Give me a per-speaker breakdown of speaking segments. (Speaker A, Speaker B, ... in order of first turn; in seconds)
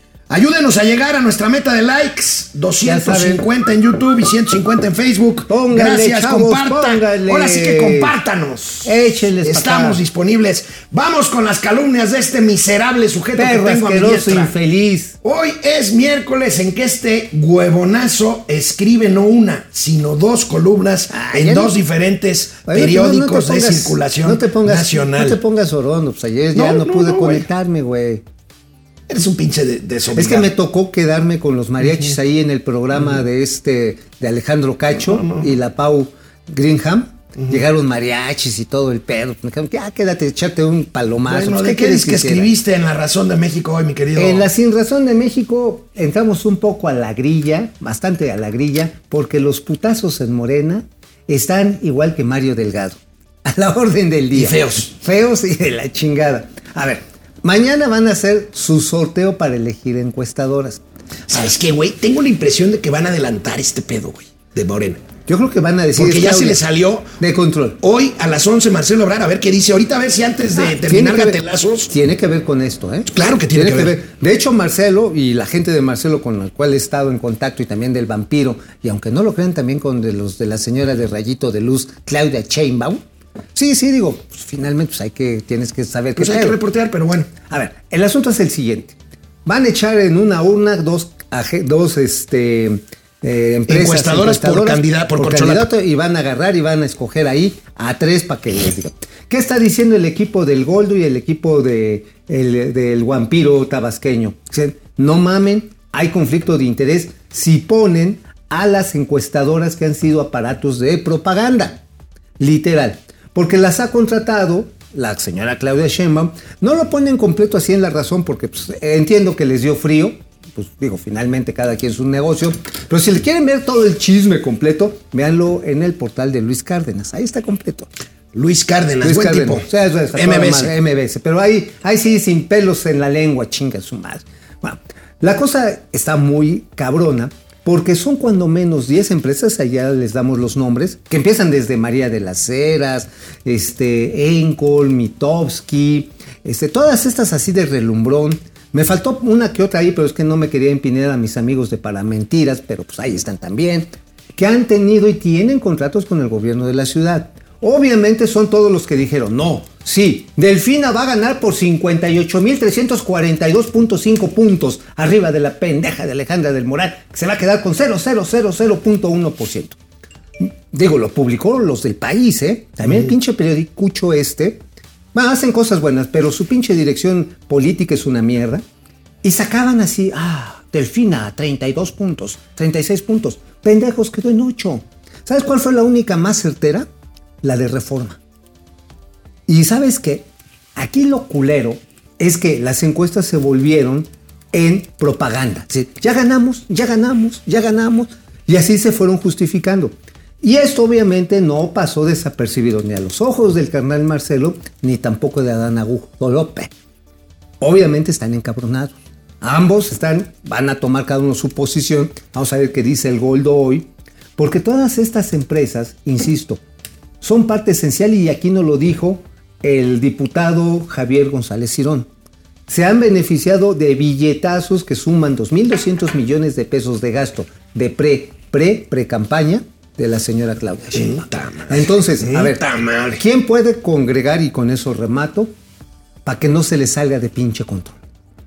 Speaker A: 0.3-14.5, 15.2-25.4, 26.5-27.5, 29.1-30.5, 35.0-35.5, 37.4-37.6, 41.3-44.5, 54.3-54.9, 61.3-65.1, 66.0-67.2, 67.8-71.9, 73.1-74.0, 86.2-87.3, 93.7-95.7, 128.3-130.7, 230.9-233.2
Speaker B: 2.8-3.5, 5.5-8.2, 8.8-10.0, 13.4-15.2, 21.1-21.8, 22.7-28.2, 30.1-42.5, 44.2-60.8, 65.3-66.6, 67.2-67.8, 70.6-83.0, 83.5-86.6, 87.5-111.8, 112.4-127.9, 129.0-169.8, 170.4-174.6, 175.1-178.6, 179.2-186.9, 187.4-188.2, 189.5-206.7, 207.6-216.6, 217.2-222.1, 222.7-232.6, 233.2-235.5, 236.2-238.0